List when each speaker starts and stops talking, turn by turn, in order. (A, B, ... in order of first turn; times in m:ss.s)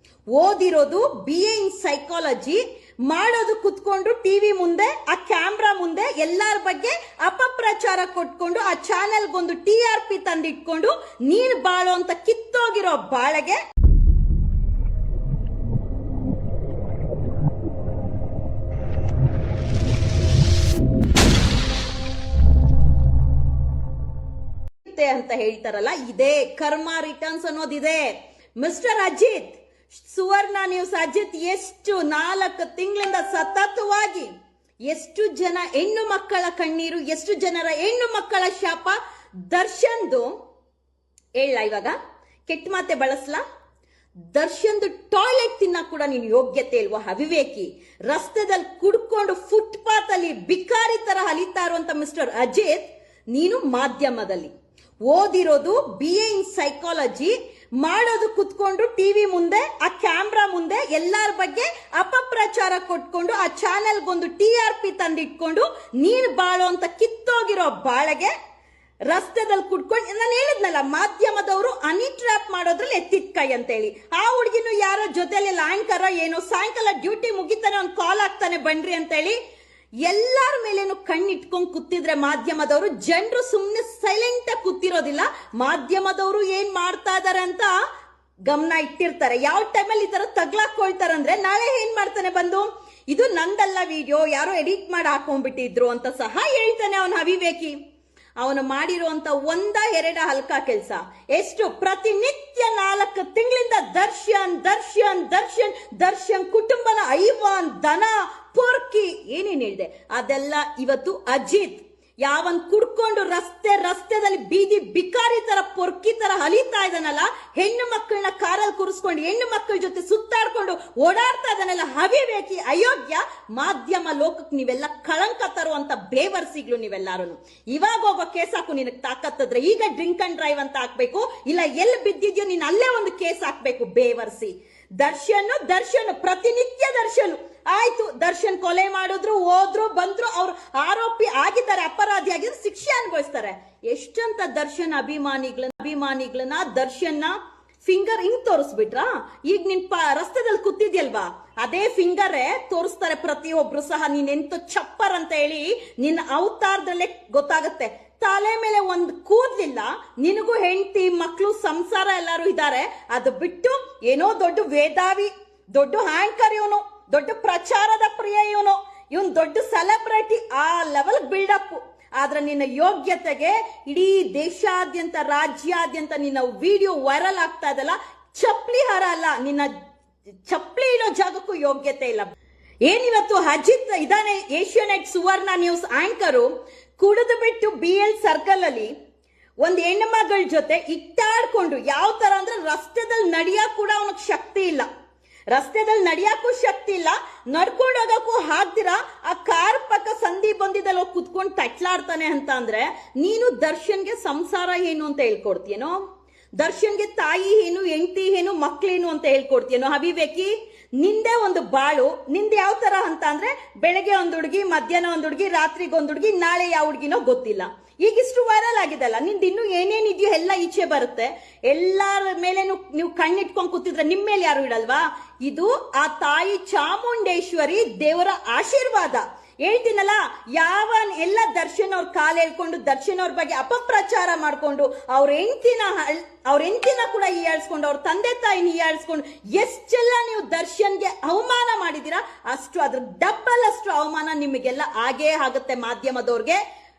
0:00.4-0:13.6 A
0:24.9-0:34.3 A
0:34.9-0:40.4 A
0:41.4-0:43.4 A
0:44.3-0:54.5 A
0:55.1-1:08.3 A
1:09.1-1:19.4 A
1:20.0-1:27.7 A
1:28.5-1:37.8 A
1:38.4-2:59.7 A
3:00.5-3:02.3 A
3:02.8-3:08.9 A
3:09.6-3:14.9 A
3:15.5-3:26.0 A
3:26.6-4:06.6 A